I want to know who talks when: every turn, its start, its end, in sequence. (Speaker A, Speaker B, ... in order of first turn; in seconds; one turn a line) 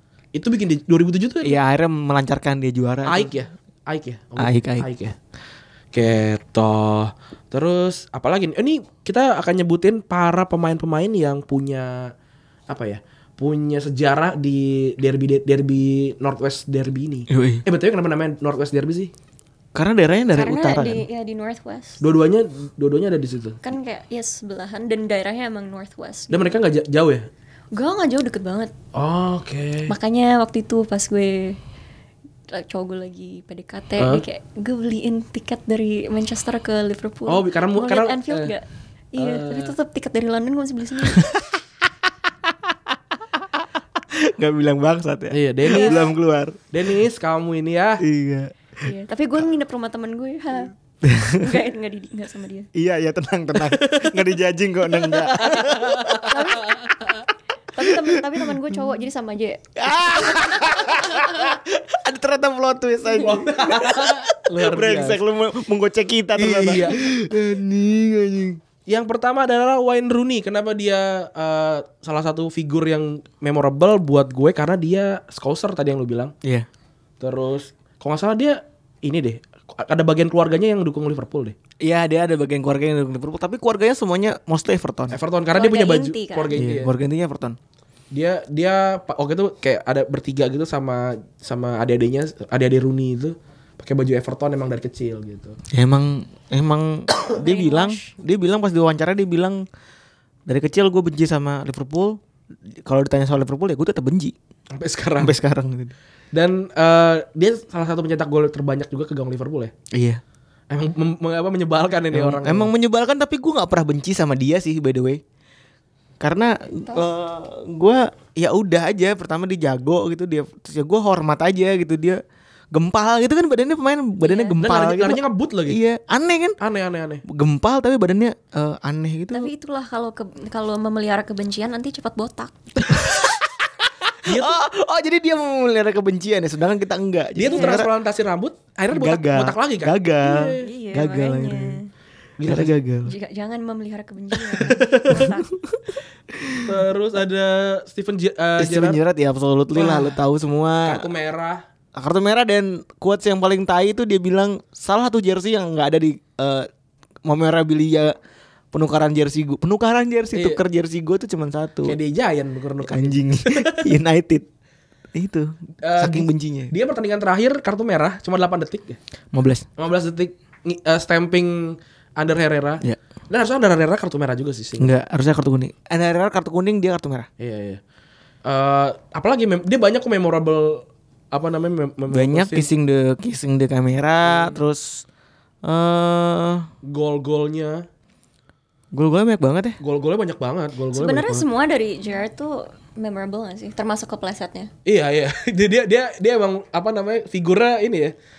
Speaker A: 0.3-1.6
Speaker B: 1.4-3.4
Speaker A: 3.0-5.1
Speaker B: 4.4-4.9
Speaker A: 5.9-12.1
Speaker A: 12.7-19.1
Speaker B: 17.3-17.6
Speaker B: 19.7-21.0
Speaker C: 20.3-22.0
Speaker A: 22.0-23.6
Speaker C: 23.6-26.5
Speaker A: 26.3-27.3
Speaker C: 27.7-28.7
Speaker A: 28.9-29.9
Speaker C: 29.9-31.6
Speaker C: 32.5-41.2
Speaker A: 34.0-34.2
Speaker A: 37.3-38.5
Speaker A: 39.2-39.7
Speaker B: 42.7-46.6
Speaker A: 45.3-46.1
Speaker C: 45.7-46.0
Speaker A: 46.7-48.0
Speaker B: 48.0-48.9
Speaker C: 48.8-50.7
Speaker B: 51.0-51.6
Speaker C: 51.4-52.7
Speaker B: 52.7-56.4
Speaker A: 53.6-54.3
Speaker A: 55.0-57.2
Speaker C: 56.2-56.8
Speaker C: 57.7-60.7
Speaker B: 57.8-58.5
Speaker B: 59.8-68.6
Speaker A: 63.1-65.2
Speaker A: 66.3-67.0
Speaker A: 68.9-76.3
Speaker A: 77.2-81.5
Speaker B: 81.8-85.2
Speaker A: 85.1-86.9
Speaker C: 85.5-86.5
Speaker B: 86.5-87.6
Speaker A: 88.1-95.6
Speaker B: 95.7-99.6
Speaker C: 97.3-98.1
Speaker B: 100.5-102.2
Speaker B: 102.8-104.3
Speaker A: 104.7-105.3
Speaker B: 105.2-105.9
Speaker A: 106.3-109.7
Speaker B: 109.9-110.2
Speaker A: 110.7-112.7
Speaker B: 112.1-115.2
Speaker B: 116.2-122.2
Speaker B: 122.7-126.5
Speaker C: 124.2-124.5
Speaker A: 124.6-125.8
Speaker A: 126.6-127.2
Speaker B: 127.2-129.5
Speaker C: 129.3-132.6
Speaker B: 132.9-133.3
Speaker A: 134.2-134.6
Speaker B: 134.2-137.9
Speaker A: 137.4-140.7
Speaker C: 137.5-137.8
Speaker B: 138.9-141.8
Speaker C: 140.6-141.9
Speaker A: 142.4-142.7
Speaker B: 142.4-143.1
Speaker C: 143.1-145.5
Speaker A: 144.6-145.3
Speaker B: 145.1-146.8
Speaker A: 146.6-149.0
Speaker B: 148.6-151.0
Speaker A: 149.7-150.2
Speaker A: 150.8-151.6
Speaker B: 151.9-156.7
Speaker B: 157.2-158.2
Speaker B: 158.7-162.0
Speaker A: 160.3-160.6
Speaker A: 161.8-163.9
Speaker B: 162.8-164.5
Speaker B: 165.1-166.7
Speaker A: 165.8-169.0
Speaker B: 169.3-169.6
Speaker A: 169.8-174.9
Speaker B: 174.8-177.3
Speaker A: 177.4-177.8
Speaker A: 178.4-182.7
Speaker B: 182.1-185.0
Speaker A: 184.2-184.6
Speaker B: 185.6-186.7
Speaker A: 186.8-187.8
Speaker B: 188.9-189.8
Speaker A: 189.8-191.4
Speaker C: 190.9-194.7
Speaker A: 194.8-198.1